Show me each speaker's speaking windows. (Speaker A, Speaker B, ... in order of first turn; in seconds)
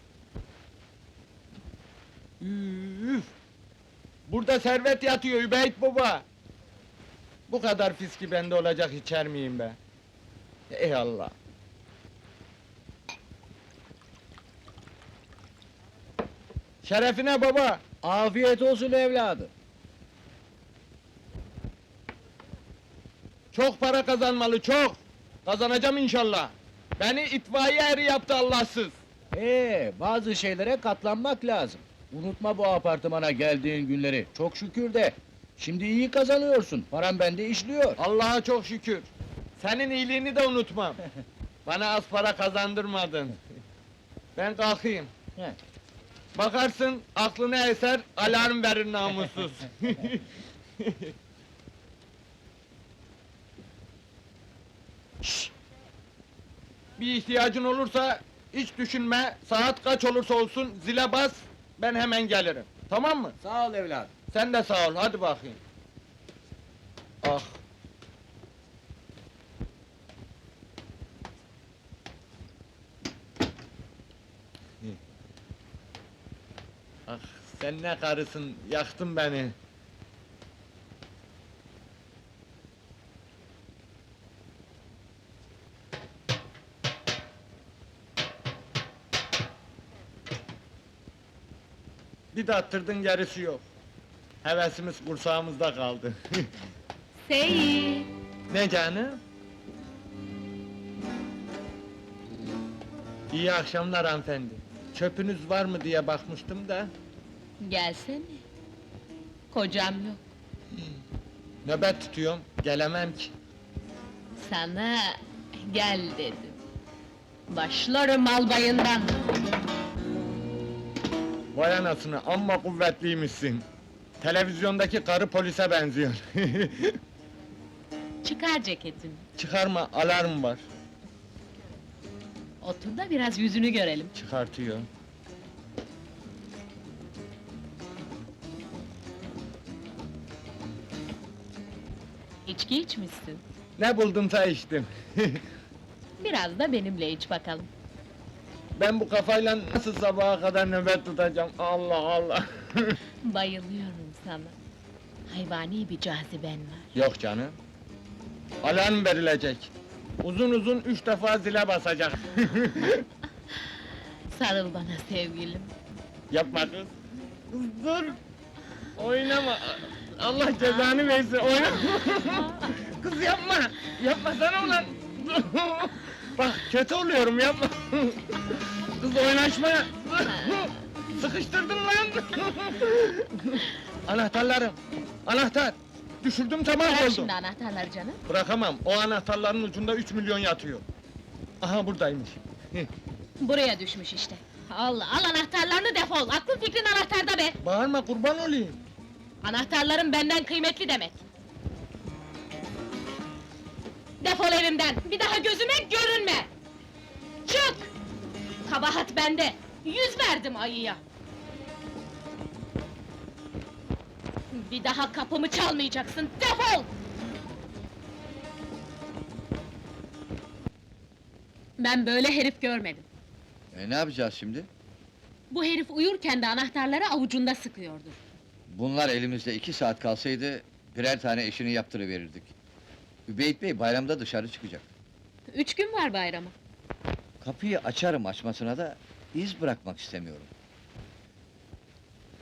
Speaker A: 2.4-3.3, 4.3-6.2, 7.5-9.8, 10.7-11.3, 16.8-17.8, 23.5-28.9, 38.0-39.1, 39.6-41.0, 41.6-43.4, 44.4-45.1, 46.3-50.2, 50.8-51.1, 55.2-55.5, 57.0-63.3, 64.3-65.6, 67.2-67.6, 77.1-79.5, 92.3-93.6, 94.4-96.5, 98.5-99.2, 103.3-106.9, 111.6-113.3, 121.5-123.6, 124.2-127.0, 129.4-130.6, 134.1-134.9, 143.8-145.4, 148.8-152.9, 156.9-157.6, 158.6-159.7, 160.2-163.0, 166.3-166.9, 167.5-168.2, 169.0-178.3, 179.0-187.3, 188.3-190.8, 191.6-192.9, 197.6-198.8
Speaker B: 18.0-19.5, 29.3-38.0, 63.4-64.1
Speaker C: 97.2-98.1, 107.6-108.4, 109.5-110.2, 114.4-116.6, 117.5-119.1, 128.2-129.2, 132.6-134.1, 142.4-143.4, 146.2-147.7, 153.2-154.5, 155.3-156.8, 164.3-165.7, 180.2-180.7, 186.8-188.2, 193.4-197.5, 199.4-201.2, 204.2-206.5, 207.4-207.9, 208.7-211.0, 214.5-216.9, 221.8-223.0, 225.5-228.3, 235.5-236.5
Speaker D: 223.7-224.7, 228.7-232.5, 233.3-234.9, 237.4-240.5